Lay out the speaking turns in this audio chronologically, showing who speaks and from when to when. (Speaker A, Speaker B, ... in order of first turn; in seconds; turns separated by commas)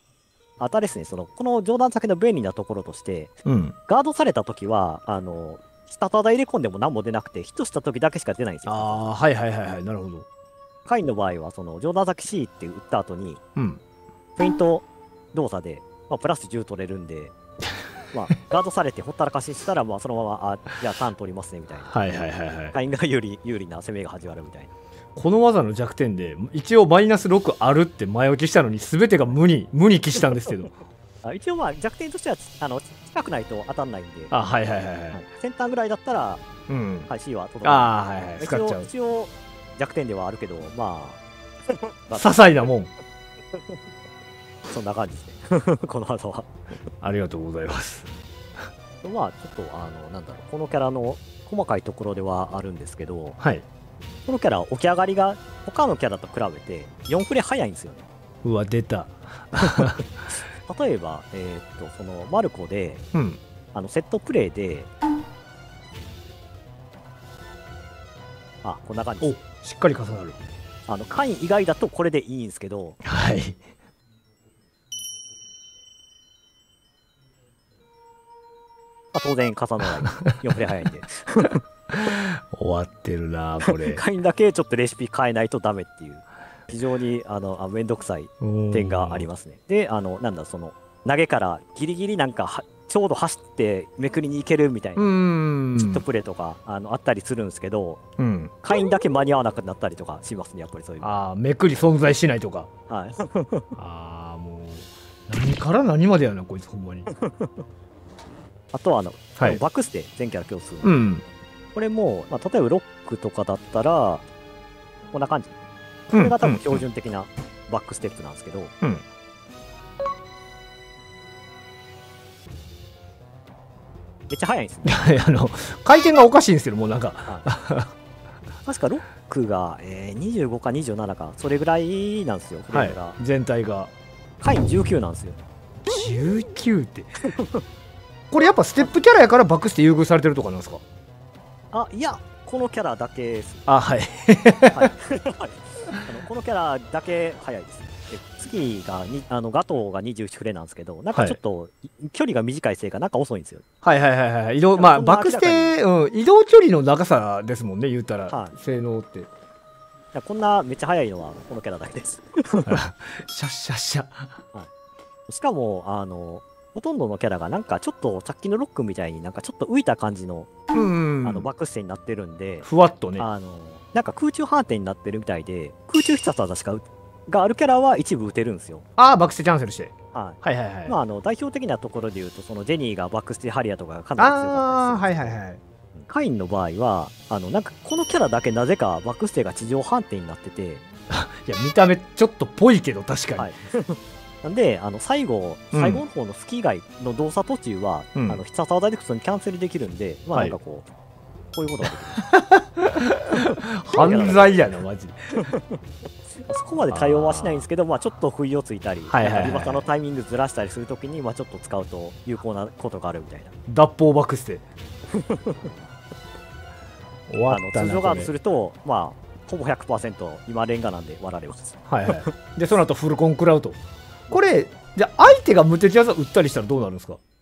Speaker A: 0.6-3.4, Speaker B: 3.4-3.8, Speaker A: 3.9-9.0, Speaker B: 8.7-10.3, Speaker A: 10.8-13.4, Speaker A: 14.4-17.3, Speaker A: 18.1-21.9, Speaker B: 21.9-22.7, Speaker A: 22.7-24.7, Speaker B: 25.1-30.8, Speaker A: 31.2-34.3, Speaker B: 34.3-35.2, Speaker A: 35.1-36.4, Speaker B: 36.7-37.1, Speaker A: 37.1-41.2, Speaker B: 37.6-38.9, Speaker A: 42.0-42.7, Speaker B: 42.1-42.9, Speaker A: 44.7-46.5, Speaker B: 47.0-48.1, Speaker A: 49.0-53.4, Speaker B: 53.4-53.6, Speaker A: 54.3-58.0, Speaker B: 58.4-60.0, Speaker A: 60.6-63.0, Speaker B: 63.1-63.4, Speaker A: 63.7-64.9, Speaker A: 68.6-69.3, Speaker B: 69.2-70.4, Speaker A: 70.9-73.0, Speaker B: 73.0-73.6, Speaker A: 79.1-81.6, Speaker B: 81.9-84.0, Speaker A: 83.7-95.1, Speaker B: 88.4-89.2, Speaker B: 95.0-96.0, Speaker A: 95.8-98.0, Speaker B: 98.2-98.5, Speaker A: 98.6-101.1, Speaker B: 101.0-102.7, Speaker A: 102.9-103.7, Speaker B: 103.7-107.1, Speaker A: 107.2-107.5, Speaker A: 108.7-110.9, Speaker B: 110.8-111.2, Speaker A: 111.7-114.2, Speaker A: 115.1-115.5, Speaker A: 116.1-118.7, Speaker B: 116.1-116.8, Speaker A: 124.3-125.1, Speaker B: 124.8-127.9, Speaker A: 128.7-133.2, Speaker B: 132.7-133.9, Speaker A: 134.4-135.4, Speaker B: 135.8-137.1, Speaker A: 137.4-137.6, Speaker B: 138.3-140.8, Speaker A: 141.7-143.7, Speaker B: 143.7-144.9, Speaker A: 144.7-153.6, Speaker B: 153.8-159.3, Speaker A: 154.7-155.8, Speaker A: 158.3-158.6, Speaker A: 160.1-162.8, Speaker B: 162.7-164.3, Speaker A: 165.3-170.5, Speaker B: 170.7-171.5, Speaker A: 171.2-178.8, Speaker B: 172.6-173.2, Speaker B: 179.0-180.9, Speaker A: 180.1-185.4, Speaker B: 184.2-185.6, Speaker A: 185.9-190.8, Speaker B: 191.1-193.5, Speaker A: 193.4-200.9, Speaker B: 195.7-196.0, Speaker B: 198.1-198.4, Speaker A: 201.5-202.3, Speaker B: 202.3-205.2, Speaker A: 203.4-204.6, Speaker A: 205.4-205.6, Speaker A: 206.4-213.5, Speaker B: 206.9-207.6, Speaker B: 209.1-209.8, Speaker B: 213.7-214.6, Speaker A: 215.1-215.8, Speaker B: 217.3-218.3, Speaker A: 217.5-222.3, Speaker B: 221.9-223.8, Speaker B: 224.3-227.2